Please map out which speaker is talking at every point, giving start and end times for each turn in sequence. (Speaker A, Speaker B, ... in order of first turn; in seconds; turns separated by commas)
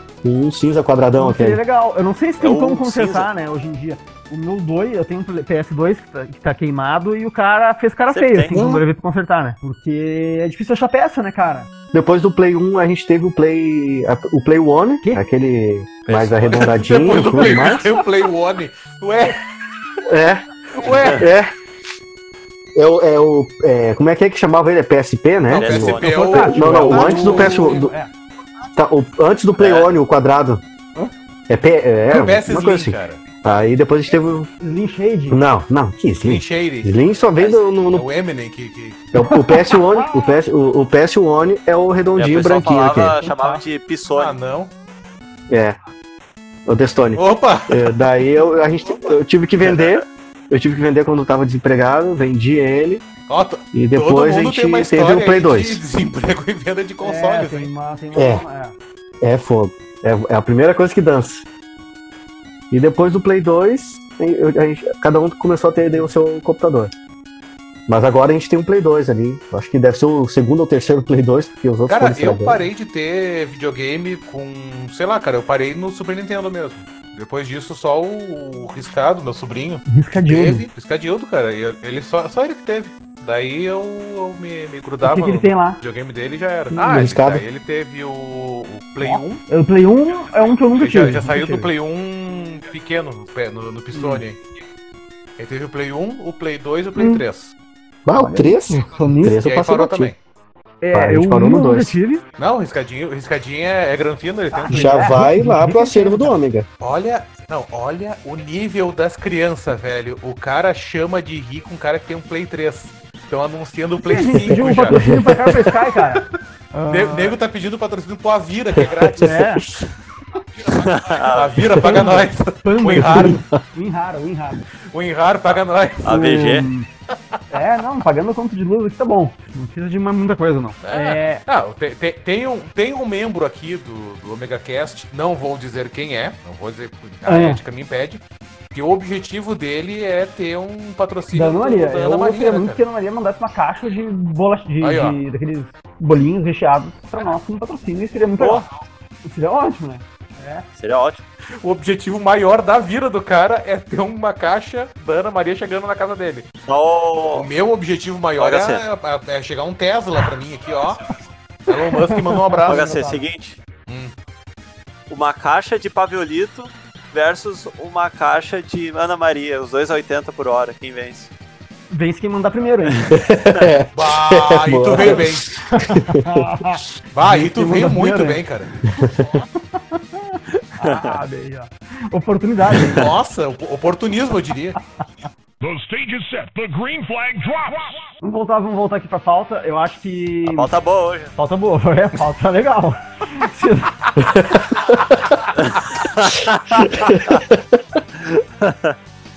Speaker A: 0.2-1.6, Speaker B: 1.2-11.7, Speaker C: 2.4-3.3, Speaker C: 8.1-8.6, Speaker A: 8.5-8.8, Speaker A: 11.9-17.9, Speaker C: 16.1-16.7, Speaker D: 16.4-19.4, Speaker B: 17.1-18.0, Speaker A: 20.1-21.5, Speaker D: 20.8-21.2, Speaker C: 20.9-21.2, Speaker A: 22.7-27.9, Speaker C: 25.5-26.5, Speaker D: 25.5-27.9, Speaker B: 26.0-28.1, Speaker A: 28.8-30.6, Speaker C: 29.6-29.9, Speaker A: 31.5-34.5, Speaker D: 32.1-33.2, Speaker B: 34.6-35.4, Speaker A: 35.3-38.1, Speaker D: 36.2-37.0, Speaker C: 37.4-37.7, Speaker D: 37.8-39.0, Speaker A: 39.1-43.2, Speaker B: 39.2-40.4, Speaker C: 42.1-44.4, Speaker B: 43.2-43.6, Speaker D: 44.1-44.7, Speaker A: 45.5-45.8, Speaker A: 46.6-53.0, Speaker D: 47.1-48.0, Speaker C: 49.6-50.0, Speaker D: 53.3-57.7, Speaker A: 53.7-55.8, Speaker B: 57.0-58.8, Speaker A: 58.1-58.4, Speaker A: 59.2-61.4, Speaker A: 62.7-66.9, Speaker B: 65.8-66.1, Speaker A: 67.9-72.7, Speaker D: 71.9-89.4, Speaker B: 79.8-80.7, Speaker B: 85.0-85.8, Speaker A: 86.7-87.4, Speaker B: 89.0-91.7, Speaker D: 90.8-94.4, Speaker B: 93.9-94.2, Speaker D: 95.4-97.5, Speaker B: 97.0-97.2, Speaker A: 98.0-100.1, Speaker B: 98.1-99.4, Speaker D: 99.3-100.2, Speaker B: 100.8-102.2, Speaker A: 100.9-102.0, Speaker D: 102.4-105.2, Speaker B: 104.5-106.4, Speaker A: 104.7-106.7, Speaker D: 106.8-116.2, Speaker B: 114.0-117.4, Speaker A: 114.4-115.6, Speaker D: 116.9-119.4, Speaker A: 118.8-119.8, Speaker B: 119.2-119.7, Speaker D: 120.6-123.4, Speaker C: 120.8-121.7, Speaker B: 121.8-124.6, Speaker A: 121.8-122.1, Speaker A: 122.9-123.6, Speaker D: 124.9-126.3, Speaker C: 126.0-126.7, Speaker B: 126.0-126.9, Speaker B: 127.5-131.4, Speaker D: 130.8-142.8, Speaker B: 137.2-137.6, Speaker B: 141.3-148.7, Speaker D: 144.8-145.2, Speaker C: 148.4-148.6, Speaker B: 149.2-150.7, Speaker C: 150.8-151.2, Speaker D: 151.6-156.5, Speaker C: 156.7-157.5, Speaker D: 157.3-161.2, Speaker C: 158.4-158.8, Speaker D: 161.7-162.9, Speaker B: 161.9-163.2, Speaker C: 162.7-163.6, Speaker D: 163.9-164.1, Speaker C: 165.1-171.3, Speaker B: 171.9-173.1, Speaker A: 173.1-176.4, Speaker D: 173.9-175.6, Speaker B: 175.7-178.4, Speaker D: 177.1-178.7, Speaker A: 178.9-179.4, Speaker B: 179.6-183.1, Speaker C: 180.8-181.2, Speaker C: 182.8-183.0, Speaker D: 182.8-184.8, Speaker E: 185.6-188.0, Speaker B: 188.2-190.7, Speaker C: 190.4-191.3, Speaker B: 191.3-194.1, Speaker A: 194.2-195.1, Speaker A: 196.7-197.8, Speaker C: 198.6-198.9